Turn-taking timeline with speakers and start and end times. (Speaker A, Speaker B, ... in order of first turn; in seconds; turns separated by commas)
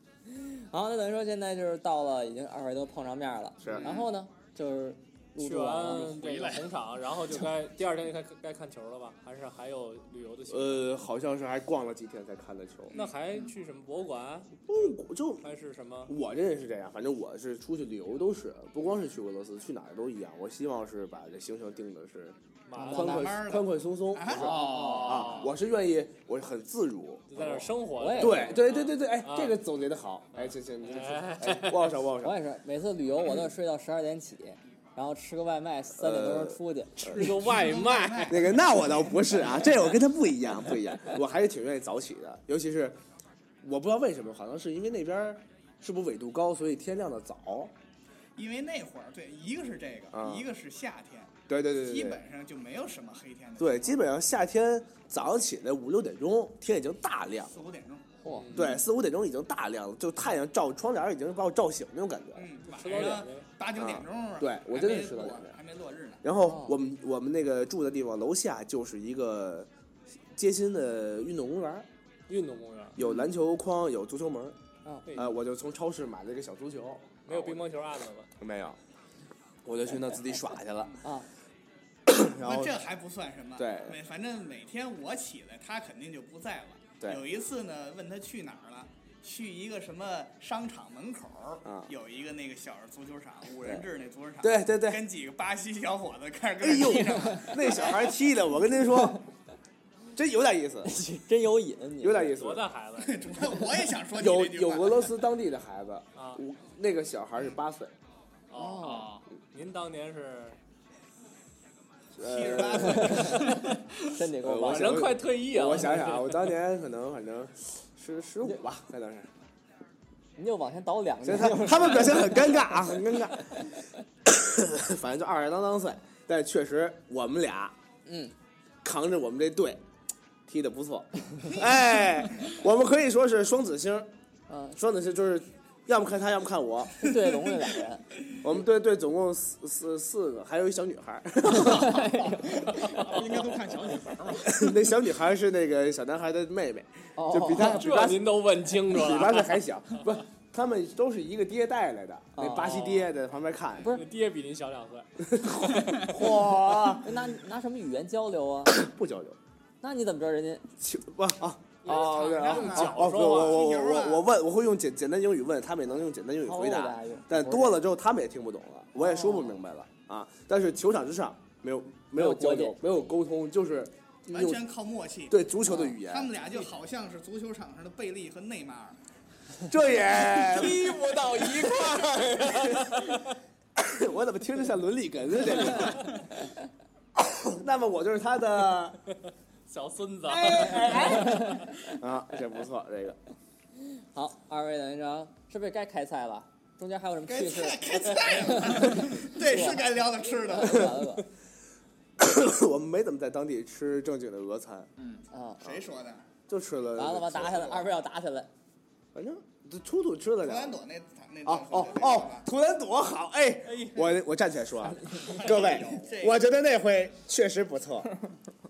Speaker A: 0.3-6.2, Speaker B: 3.6-3.9, Speaker C: 5.4-10.9, Speaker D: 6.1-6.7, Speaker B: 10.5-13.0, Speaker C: 12.9-14.8, Speaker B: 14.7-15.4, Speaker C: 15.4-16.1, Speaker B: 16.1-32.4, Speaker C: 22.7-23.3, Speaker A: 22.8-23.3, Speaker E: 23.0-25.0, Speaker A: 24.5-25.3, Speaker D: 24.5-25.2, Speaker C: 24.7-25.5, Speaker C: 27.3-29.6, Speaker A: 28.0-28.6, Speaker C: 30.3-31.9, Speaker A: 32.2-37.0, Speaker B: 36.0-37.2, Speaker C: 37.0-38.6, Speaker E: 37.1-39.2, Speaker B: 38.3-43.0, Speaker B: 43.6-47.7, Speaker E: 48.4-54.0, Speaker B: 50.1-50.4, Speaker B: 51.5-52.2, Speaker B: 53.6-57.6, Speaker E: 57.5-58.0, Speaker A: 58.2-58.5, Speaker C: 58.2-58.8, Speaker B: 58.5-62.5, Speaker E: 62.3-66.2, Speaker C: 62.7-63.5, Speaker B: 63.8-65.5, Speaker B: 66.2-69.7, Speaker A: 66.4-66.8, Speaker B: 70.3-71.9, Speaker C: 72.3-73.0, Speaker B: 73.0-74.5, Speaker A: 74.8-75.1, Speaker C: 75.1-75.3, Speaker B: 75.1-77.6, Speaker C: 77.2-78.3, Speaker B: 78.4-78.8, Speaker B: 79.6-81.0, Speaker A: 81.0-81.3, Speaker B: 82.1-82.8, Speaker E: 82.4-98.1, Speaker B: 83.5-84.0, Speaker B: 91.6-91.9, Speaker B: 94.4-95.0, Speaker B: 96.6-99.2, Speaker B: 100.1-100.9, Speaker A: 100.8-102.4, Speaker B: 102.0-102.7, Speaker C: 102.3-103.3, Speaker E: 103.0-105.1, Speaker B: 104.1-107.9, Speaker C: 106.2-106.4, Speaker C: 108.5-110.6, Speaker A: 108.5-109.1, Speaker D: 108.8-109.2, Speaker B: 112.2-113.5, Speaker E: 112.2-113.8, Speaker A: 112.9-115.1, Speaker C: 113.2-113.7, Speaker B: 114.4-119.3, Speaker C: 114.6-116.5, Speaker A: 120.4-122.7, Speaker B: 121.2-123.7, Speaker B: 124.2-127.7, Speaker A: 128.1-128.3, Speaker B: 128.8-129.8, Speaker B: 130.5-134.1, Speaker A: 134.5-134.8, Speaker B: 134.8-137.2, Speaker A: 137.0-138.1, Speaker B: 138.4-142.1, Speaker A: 141.4-142.7, Speaker D: 142.2-144.6, Speaker C: 142.8-143.3, Speaker B: 144.4-154.0, Speaker A: 147.2-147.8, Speaker C: 147.5-149.6, Speaker A: 152.3-152.8, Speaker C: 152.6-153.1, Speaker C: 153.9-156.1, Speaker B: 155.2-157.1, Speaker A: 157.0-158.8, Speaker B: 158.7-159.4, Speaker A: 159.8-160.7, Speaker B: 160.8-174.7, Speaker C: 161.8-163.7, Speaker E: 161.9-164.3, Speaker A: 166.4-167.8, Speaker A: 169.0-169.6, Speaker A: 172.1-172.8, Speaker E: 174.3-175.4, Speaker B: 175.3-176.3, Speaker A: 175.6-176.0, Speaker E: 176.0-179.0, Speaker B: 179.7-180.9, Speaker C: 180.2-183.4, Speaker B: 182.5-183.0, Speaker B: 183.8-186.1, Speaker B: 187.2-189.0, Speaker C: 189.7-191.7, Speaker B: 190.2-193.2, Speaker A: 191.2-191.7, Speaker A: 193.9-201.3, Speaker E: 197.3-201.0, Speaker B: 200.6-200.9, Speaker B: 202.2-204.9, Speaker D: 205.0-205.2, Speaker A: 205.3-205.6, Speaker E: 205.6-206.3, Speaker B: 206.5-207.9, Speaker A: 206.9-208.5, Speaker B: 209.1-210.8, Speaker E: 210.4-212.4, Speaker B: 211.4-218.1, Speaker E: 215.2-216.4